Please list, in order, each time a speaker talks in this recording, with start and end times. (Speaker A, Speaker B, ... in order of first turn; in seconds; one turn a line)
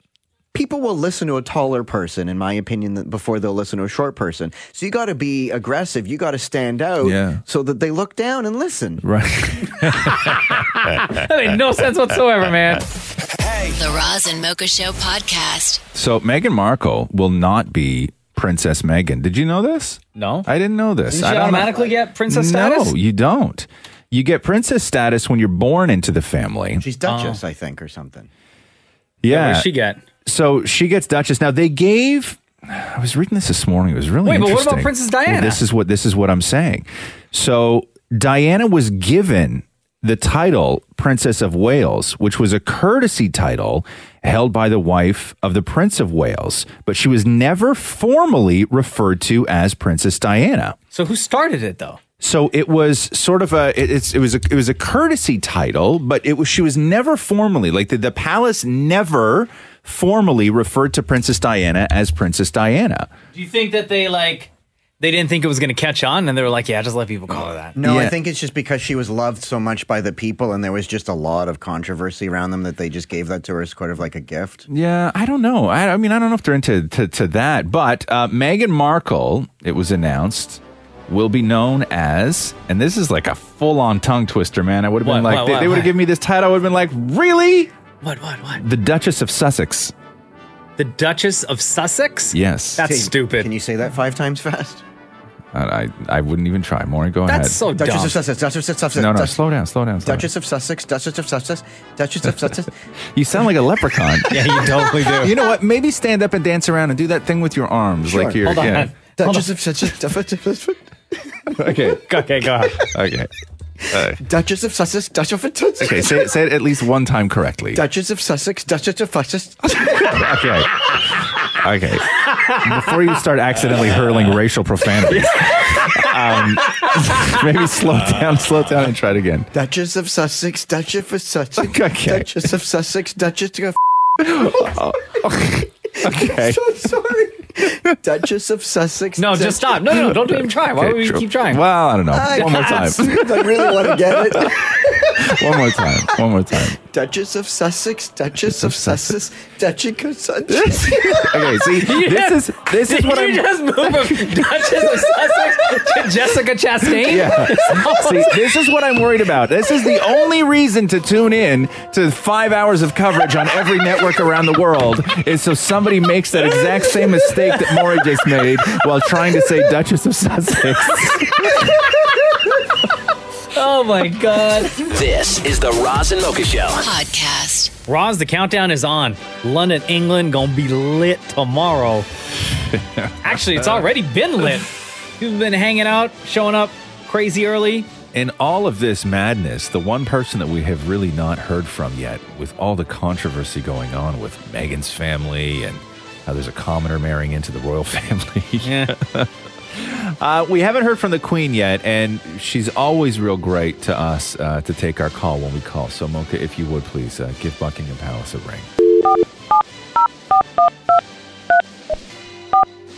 Speaker A: 0.5-9.0
Speaker B: 7.0-7.4
Speaker B: 9.0-10.5
Speaker C: 10.2-12.9
Speaker D: 13.7-15.8
Speaker B: 15.9-26.9
Speaker C: 20.2-20.5
Speaker C: 21.1-22.9
Speaker A: 26.8-28.3
Speaker C: 27.1-27.4
Speaker B: 29.2-29.7
Speaker C: 29.3-30.0
Speaker B: 30.2-50.8
Speaker C: 34.2-35.6
Speaker C: 50.9-52.0
Speaker B: 52.2-63.1
Speaker C: 63.3-64.5
Speaker C: 65.0-67.8
Speaker A: 67.8-74.7
Speaker B: 67.8-68.2
Speaker B: 74.7-87.7
Speaker C: 85.0-85.9
Speaker C: 88.0-88.6
Speaker B: 88.6-89.9
Speaker C: 90.8-93.5
Speaker B: 92.3-92.9
Speaker A: 92.8-94.8
Speaker B: 95.5-97.7
Speaker C: 97.3-98.2
Speaker A: 97.7-99.4
Speaker B: 99.0-100.3
Speaker A: 100.0-102.7
Speaker B: 103.2-108.9
Speaker C: 104.3-105.4
Speaker A: 108.1-108.5
Speaker C: 108.4-109.5
Speaker A: 109.2-110.8
Speaker B: 111.6-112.0
Speaker C: 111.7-112.8
Speaker B: 112.8-113.3
Speaker B: 113.9-114.2
Speaker A: 114.2-116.3
Speaker B: 115.8-117.8
Speaker A: 117.7-120.2
Speaker B: 119.8-122.1
Speaker C: 122.3-122.6
Speaker B: 122.6-129.5
Speaker C: 125.1-127.4
Speaker A: 129.5-133.8
Speaker B: 131.6-132.5
Speaker B: 134.2-136.6
Speaker A: 134.4-134.8
Speaker A: 136.0-139.8
Speaker C: 139.2-141.6
Speaker B: 139.9-144.6
Speaker A: 142.1-145.4
Speaker B: 145.2-146.8
Speaker A: 146.9-151.5
Speaker B: 148.6-149.2
Speaker B: 150.5-154.9
Speaker C: 151.8-158.4
Speaker B: 156.8-171.8
Speaker C: 166.8-168.1
Speaker C: 173.6-174.8
Speaker E: 174.9-176.8
Speaker D: 176.8-177.7
Speaker C: 177.9-182.1
Speaker B: 182.7-183.9
Speaker C: 183.2-187.9
Speaker B: 188.1-208.7
Speaker C: 198.6-198.9